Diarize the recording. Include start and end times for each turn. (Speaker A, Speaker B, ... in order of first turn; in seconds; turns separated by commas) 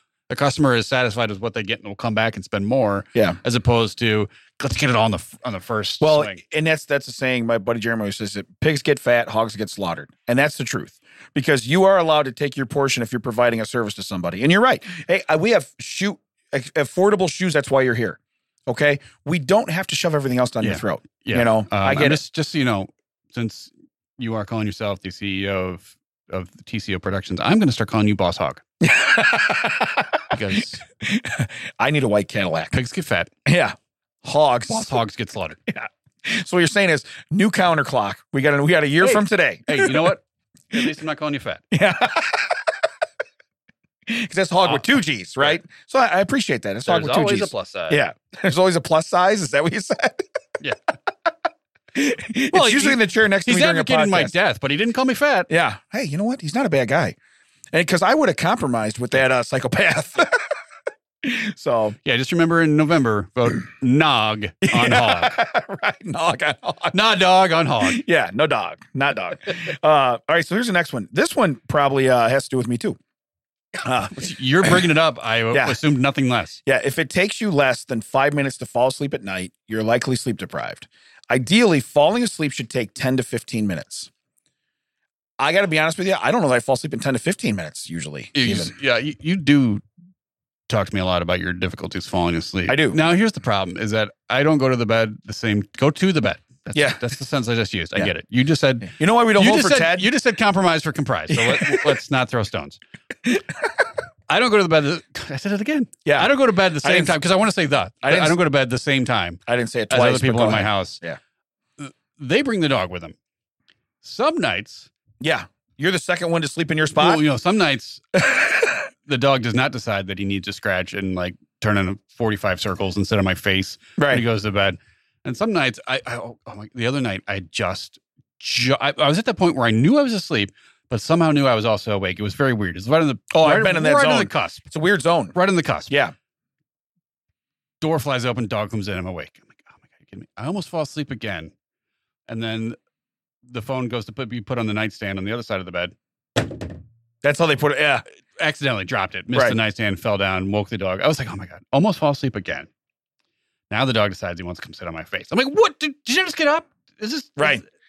Speaker A: 0.3-6.4, Speaker B: 6.0-22.2, Speaker A: 20.6-28.6, Speaker B: 28.8-30.4, Speaker A: 30.3-30.8, Speaker B: 31.0-32.8, Speaker A: 32.7-33.3, Speaker B: 33.5-35.0, Speaker A: 34.7-35.6, Speaker B: 35.7-40.1, Speaker A: 39.0-41.6, Speaker B: 41.7-42.7, Speaker B: 44.1-50.3, Speaker A: 46.9-48.0, Speaker B: 51.9-54.3, Speaker A: 52.5-55.5, Speaker B: 55.5-57.2, Speaker B: 57.7-60.5, Speaker B: 61.2-62.0, Speaker A: 62.0-65.3, Speaker B: 64.6-67.0, Speaker A: 66.9-68.0, Speaker B: 67.8-73.0, Speaker B: 73.8-74.8, Speaker A: 74.1-76.6, Speaker B: 75.5-75.8, Speaker B: 76.7-84.1, Speaker B: 85.4-88.7, Speaker A: 88.3-89.8, Speaker A: 90.7-102.8, Speaker B: 92.7-93.0, Speaker B: 96.7-97.0, Speaker B: 98.8-100.1, Speaker B: 101.3-102.0, Speaker B: 103.2-103.7, Speaker A: 104.3-111.0, Speaker B: 106.0-107.2, Speaker B: 108.0-108.4, Speaker B: 109.5-111.2, Speaker A: 111.8-113.2, Speaker A: 114.0-114.9, Speaker B: 115.2-117.2, Speaker A: 117.0-118.0, Speaker B: 118.2-118.8, Speaker A: 119.1-134.7, Speaker B: 124.0-124.2, Speaker B: 133.3-135.3, Speaker A: 135.3-135.9, Speaker B: 135.9-136.2, Speaker A: 137.8-141.5, Speaker A: 142.3-142.8, Speaker A: 143.5-145.9, Speaker B: 147.2-148.0, Speaker A: 148.4-152.7, Speaker A: 153.7-157.6, Speaker B: 157.4-157.6